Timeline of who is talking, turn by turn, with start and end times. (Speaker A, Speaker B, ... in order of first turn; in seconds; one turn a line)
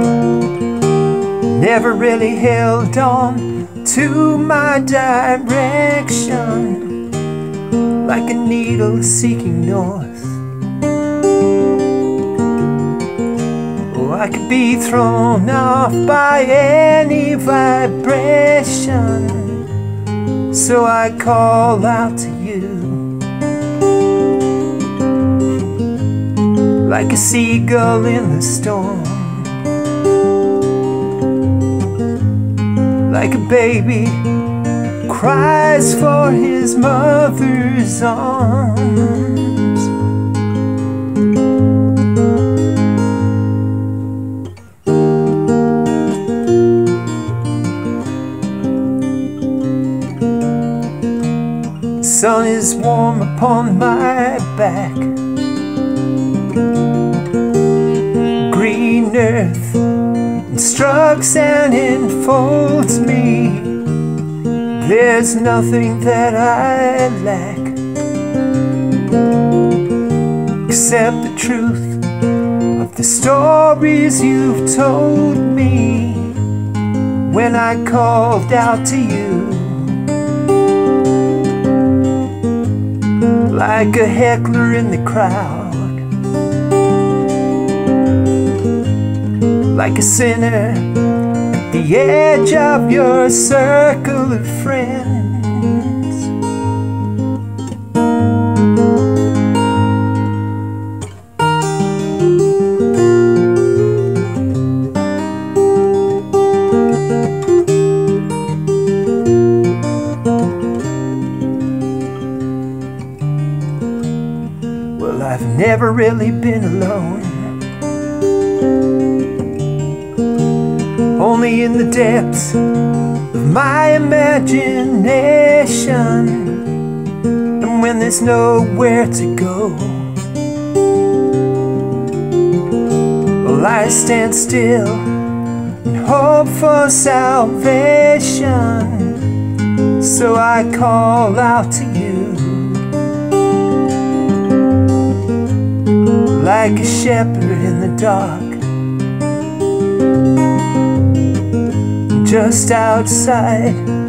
Speaker A: 1.4-7.1
Speaker A: 8.0-10.4
Speaker A: 13.9-19.8
Speaker A: 20.5-23.1
Speaker A: 26.8-29.6
Speaker A: 33.0-34.3
Speaker A: 35.0-39.9
Speaker A: 52.0-55.2
Speaker A: 58.3-59.9
Speaker A: 60.4-63.9
Speaker A: 64.7-67.8
Speaker A: 70.6-72.1
Speaker A: 72.7-76.4
Speaker A: 77.2-80.1
Speaker A: 83.5-86.1
Speaker A: 89.6-91.0
Speaker A: 91.6-96.3
Speaker A: 114.9-117.6
Speaker A: 121.1-122.6
Speaker A: 123.3-126.8
Speaker A: 127.6-130.1
Speaker A: 133.4-135.1
Speaker A: 135.8-139.3
Speaker A: 140.0-142.9
Speaker A: 146.2-148.6
Speaker A: 152.1-153.9